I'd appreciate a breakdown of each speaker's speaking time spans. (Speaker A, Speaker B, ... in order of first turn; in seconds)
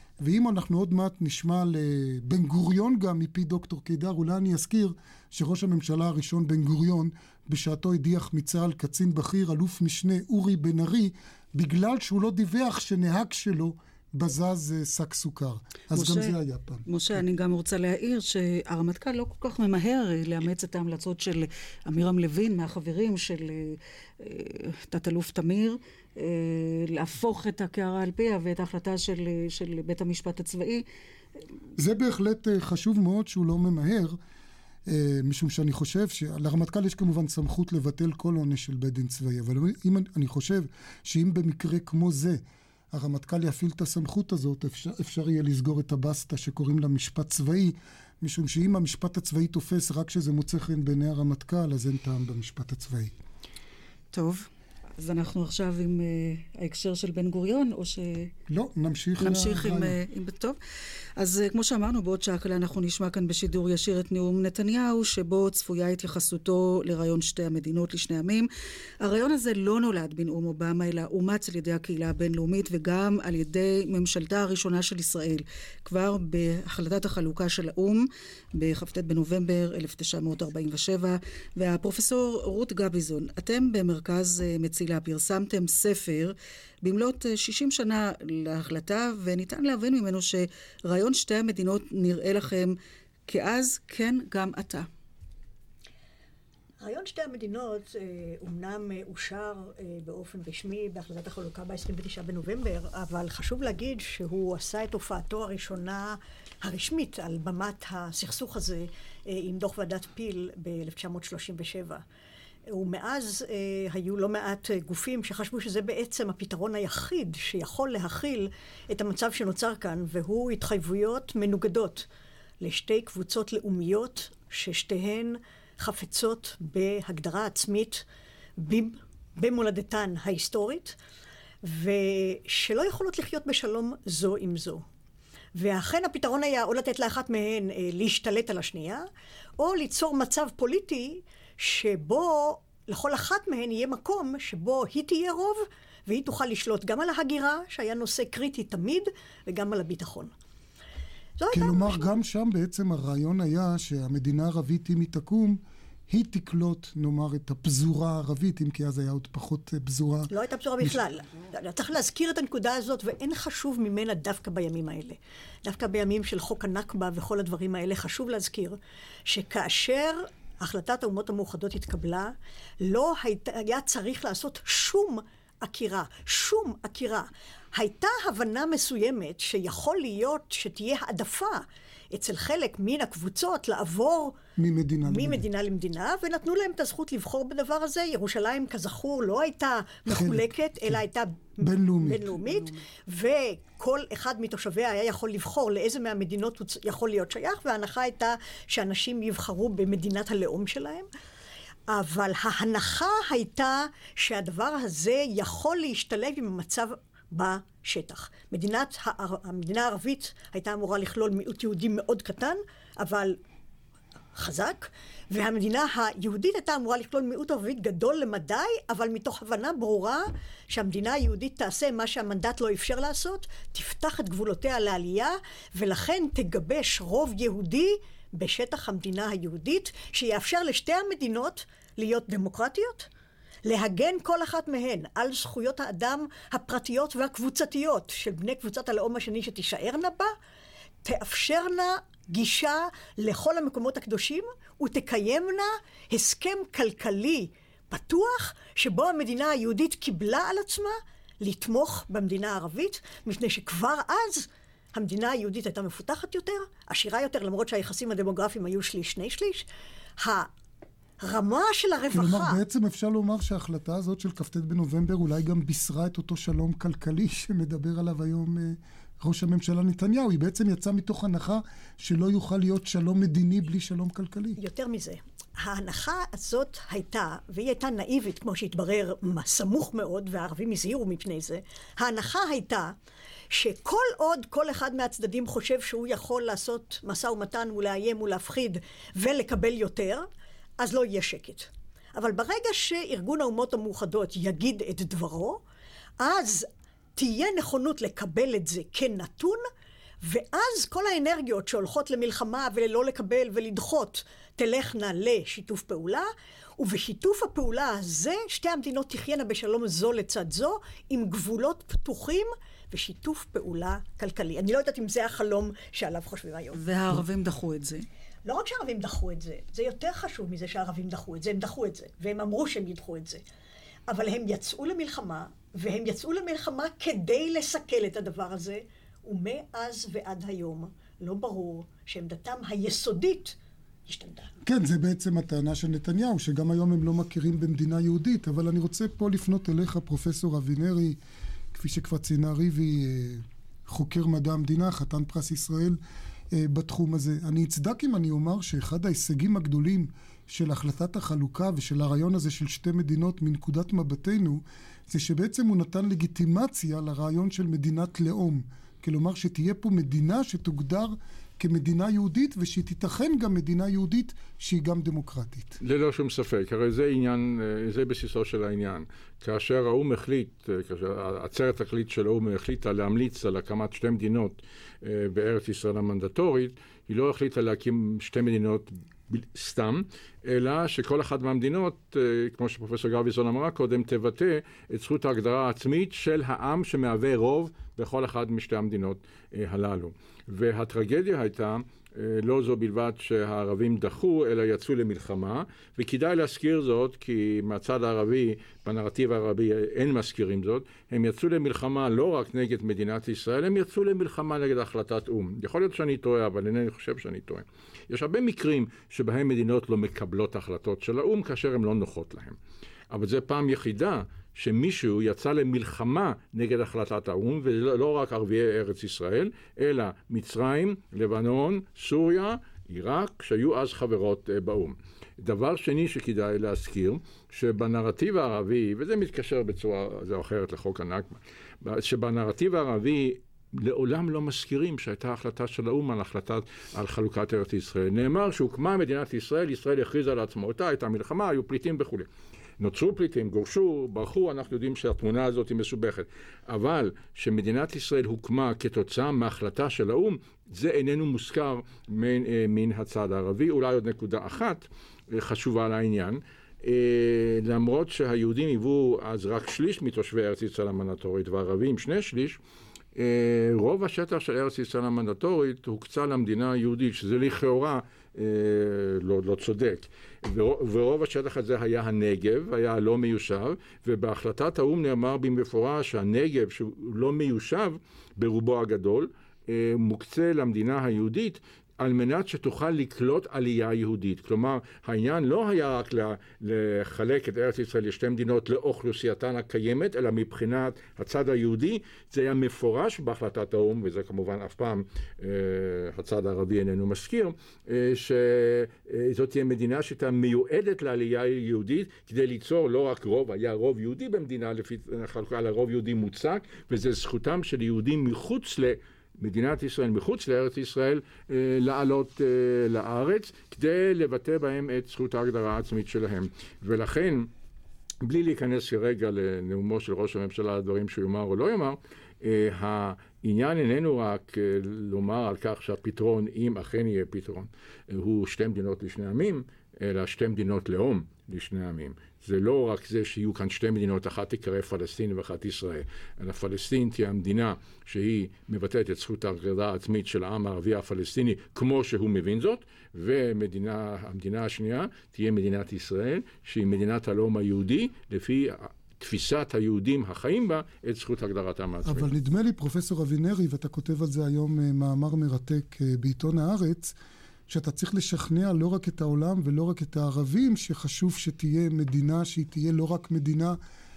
Speaker A: 0.2-17.2, 31.8-34.2, 34.9-53.1, 58.5-60.0, 151.5-161.0, 184.6-185.5, 190.1-191.0, 191.6-192.4, 262.1-274.6, 334.6-341.2, 341.7-346.0, 346.5-365.8, 552.0-557.1, 557.7-563.8
Speaker B: 15.9-30.9, 54.1-58.3, 59.2-60.6, 61.2-68.5, 69.0-94.9, 316.7-318.1
Speaker C: 96.8-112.0, 112.7-122.1, 122.6-128.0, 128.6-131.0, 131.6-134.8, 135.6-139.0, 139.6-150.3, 151.4-152.1, 160.3-184.4, 185.1-201.1, 201.9-213.4, 214.4-233.1, 233.7-240.3, 241.0-259.6, 260.2-260.5, 261.2-262.6, 274.6-282.9, 283.5-290.3, 290.8-295.6, 296.2-299.6, 300.2-306.3, 306.8-316.8, 318.4-323.4, 324.1-334.5
Speaker D: 365.8-412.6, 413.1-442.3, 442.8-462.6, 463.1-517.5, 518.2-552.3